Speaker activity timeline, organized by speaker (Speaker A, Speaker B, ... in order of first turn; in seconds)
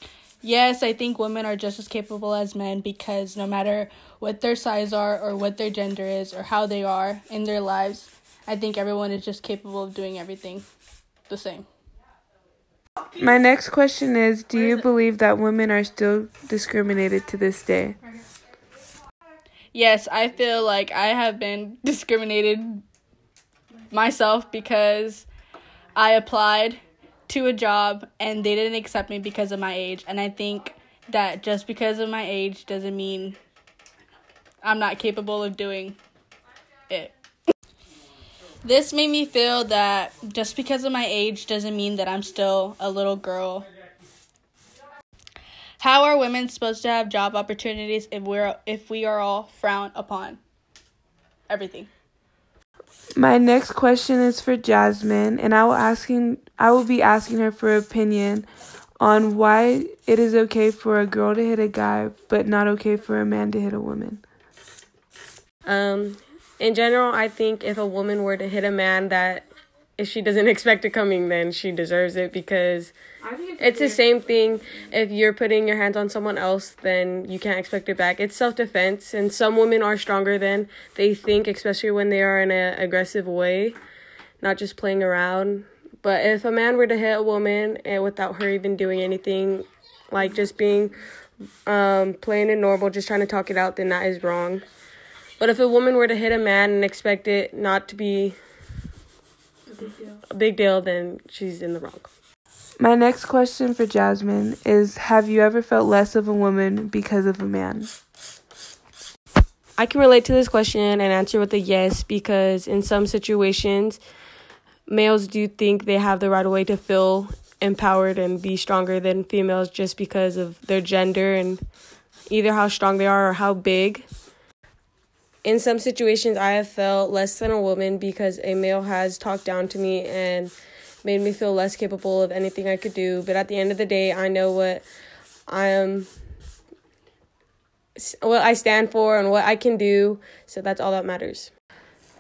Speaker A: 0.4-10.7, 11.3-11.7, 19.7-22.8, 23.9-25.3, 26.0-33.4, 34.6-36.0, 38.6-43.7, 45.8-50.4, 51.5-51.9
Speaker B: 13.2-18.0, 53.2-58.5, 59.0-64.2, 102.8-107.9
Speaker C: 65.7-69.5, 70.0-72.9, 73.5-83.8, 84.4-91.0, 91.7-94.6, 95.4-98.4, 100.2-102.1, 109.8-114.0, 114.9-121.6, 122.3-124.1, 125.4-134.8, 135.5-136.1, 138.0-141.5